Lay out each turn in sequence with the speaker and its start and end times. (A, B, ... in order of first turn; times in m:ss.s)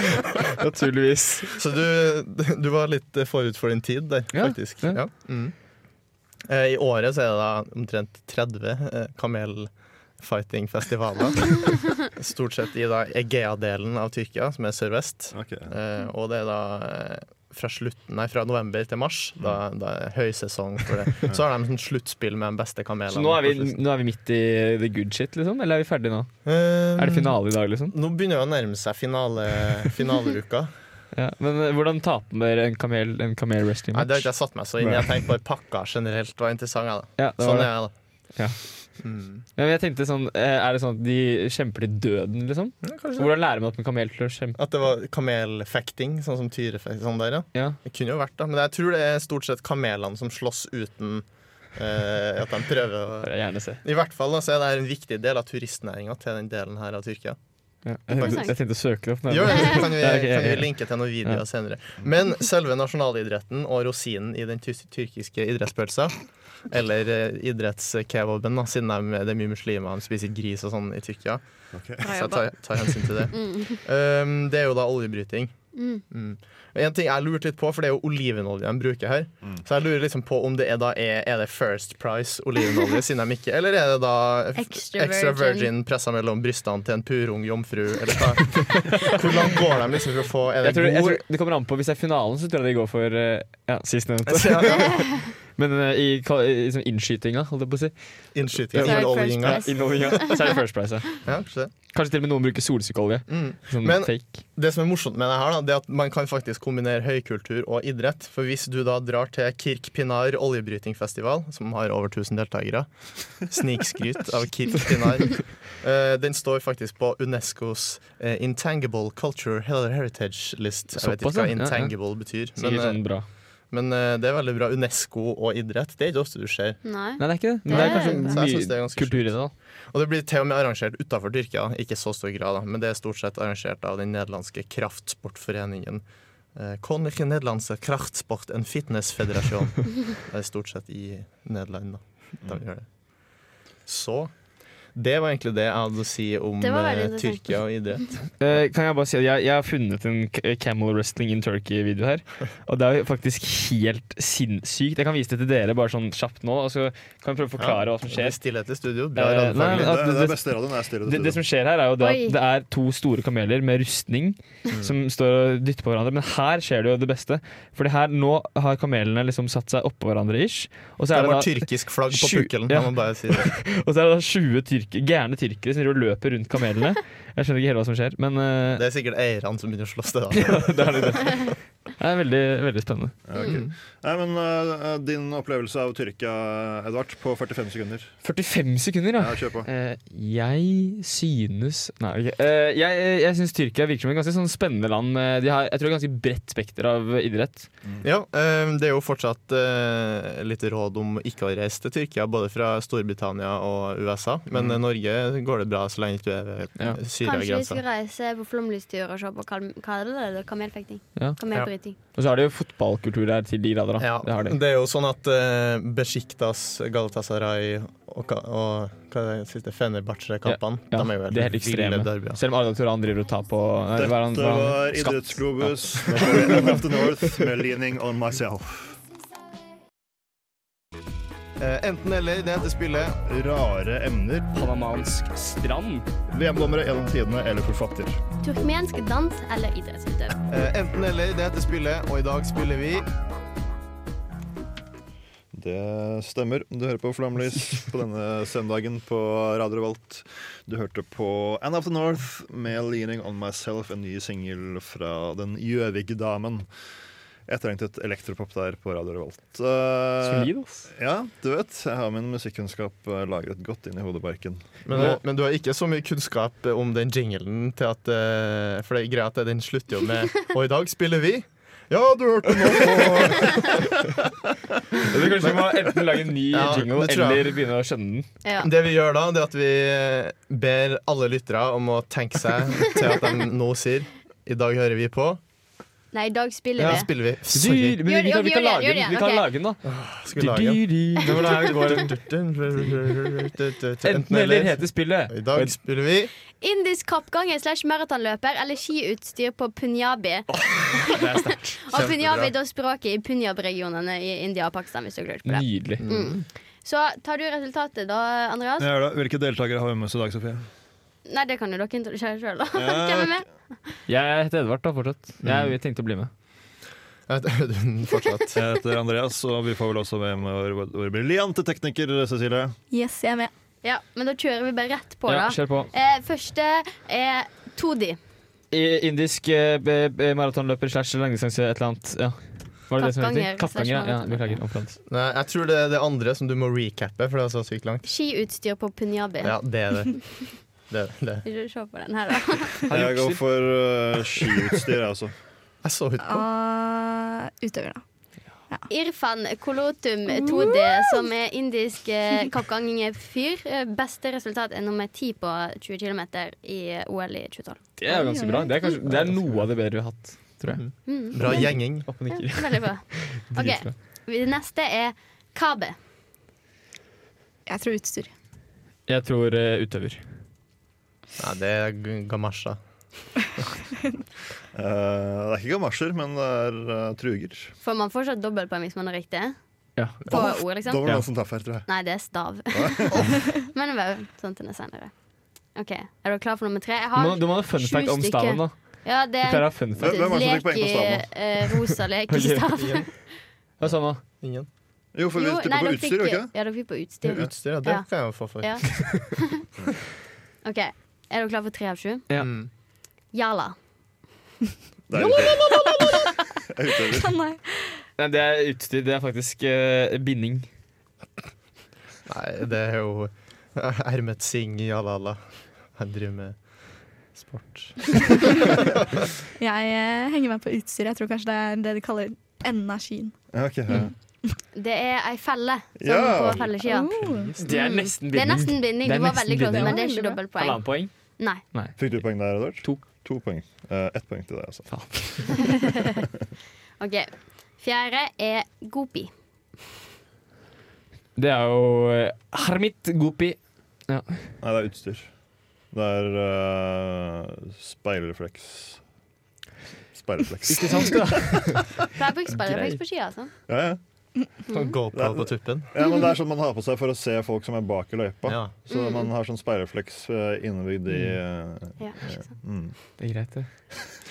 0:00.6-0:01.6 A
0:01.6-0:23.8 B
0:04.3-0:05.0 A
0:15.3-0:15.7 C
0:23.1-0:27.9 A
0:26.4-0:30.7 B
0:31.1-0:34.3 A
0:33.9-0:37.9 B
0:37.2-0:44.6 A
0:39.0-0:39.4 B
0:42.8-0:43.3 B
0:44.6-0:57.4 B
0:53.2-0:53.8 A
0:57.8-1:01.4 A
0:58.2-0:58.5 D
0:58.2-0:58.5 B
0:59.3-1:31.2 B
1:11.7-1:12.1 C
1:12.0-1:13.8 D
1:15.8-1:16.0 D
1:24.6-1:25.7 D
1:30.6-1:44.4 A
1:34.3-1:35.1 B
1:38.3-1:40.1 B
1:38.8-1:40.4 D
1:41.2-1:41.7 B
1:43.3-2:28.3 B
2:00.9-2:03.3 A
2:06.8-2:08.4 D
2:07.2-2:09.5 A
2:26.6-2:28.1 D
2:28.4-2:38.4 A
2:37.6-2:40.0 B
2:39.1-2:58.9 A
2:39.6-2:41.4 C
2:42.0-2:42.4 D
2:44.7-2:45.0 B
2:51.1-2:53.5 B
2:58.8-3:01.2 B
3:00.4-3:03.2 A
3:03.2-3:08.2 C
3:03.4-3:03.7 B
3:08.2-3:17.7 A
3:09.2-3:09.7 C
3:18.0-3:27.8 B
3:27.2-3:32.0 D
3:31.2-3:34.6 A
3:34.0-3:42.4 B
3:40.4-3:46.8 A
3:44.0-3:49.0 C
3:51.6-3:53.2 B
3:53.3-3:54.5 C
3:54.5-3:56.1 A
3:56.3-3:58.2 C
3:58.4-4:00.4 D
4:00.5-4:03.1 B
4:05.5-4:16.8 C
4:17.5-4:25.2 C
4:20.2-4:20.8 A
4:24.8-4:33.8 B
4:24.9-4:25.2 A
4:32.7-4:33.7 C
4:35.1-4:38.3 A
4:36.5-4:37.5 B
4:38.4-4:38.7 D
4:38.6-4:45.4 B
4:46.1-4:47.1 D
4:46.8-4:48.0 B
4:46.8-4:52.1 A
4:48.1-4:49.5 D
4:49.8-4:56.3 B
4:51.5-4:51.8 D
4:54.0-4:55.8 A
4:56.6-5:01.1 D
5:00.5-5:01.8 A
5:01.8-5:08.9 D
5:01.9-5:02.5 B
5:05.4-5:06.3 A
5:06.0-5:06.5 B
5:08.8-5:10.7 C
5:11.2-5:14.0 D
5:12.8-5:13.5 C
5:14.1-5:16.3 A
5:15.4-5:15.8 B
5:17.3-5:18.6 B
5:18.5-5:22.8 C
5:22.9-5:23.5 E
5:23.8-5:28.2 D
5:25.3-5:25.9 A
5:28.7-5:35.0 A
5:33.0-5:34.6 D
5:35.1-5:38.1 B
5:38.0-5:40.2 D
5:39.4-5:41.5 B
5:41.4-5:42.8 D
5:42.9-5:43.6 A
5:42.9-5:45.4 C
5:45.8-5:46.5 B
5:46.2-5:48.9 E
5:48.9-5:57.9 D
5:50.3-5:51.1 E
5:58.0-6:03.9 A
5:58.0-5:59.0 E
5:59.1-5:59.6 C
6:00.7-6:02.1 B
6:01.1-6:06.0 D
6:07.7-6:08.3 E
6:09.1-6:10.3 A
6:11.4-6:13.3 B
6:14.7-6:17.8 C
6:17.8-6:33.4 D
6:20.0-6:21.3 A
6:20.3-6:20.7 E
6:20.7-6:22.0 C
6:22.7-6:23.3 C
6:27.2-6:30.3 A
6:30.0-6:31.3 C
6:32.3-6:33.2 A
6:32.8-6:33.1 B
6:33.8-6:34.2 A
6:34.2-6:34.7 B
6:35.1-6:37.5 C
6:35.4-6:39.4 D
6:37.3-6:39.3 B
6:40.6-6:44.3 D
6:42.4-6:42.7 B
6:45.1-6:46.2 C
6:45.2-6:46.0 E
6:46.7-6:47.4 C
6:47.1-6:48.0 E
6:48.2-6:50.7 A
6:52.3-6:58.5 B
6:59.6-7:03.4 E
7:03.5-7:04.2 C
7:04.7-7:07.2 D
7:06.0-7:07.3 C
7:06.8-7:07.5 E
7:07.2-7:07.9 B
7:07.6-7:13.1 A
7:07.7-7:11.6 D
7:09.7-7:10.4 E
7:12.0-7:15.6 C
7:14.9-7:15.8 A
7:17.0-7:19.8 D
7:21.4-7:24.6 A
7:24.6-7:29.2 C
7:30.1-7:31.3 C
7:30.7-7:32.0 A
7:32.2-7:34.0 D
7:32.6-7:33.0 A
7:33.7-7:34.6 C
7:34.7-7:34.9 D
7:34.7-7:35.9 B
7:35.1-7:43.2 C
7:38.4-7:38.7 B
7:38.9-7:39.3 D
7:42.0-7:42.5 D
7:43.2-7:43.9 A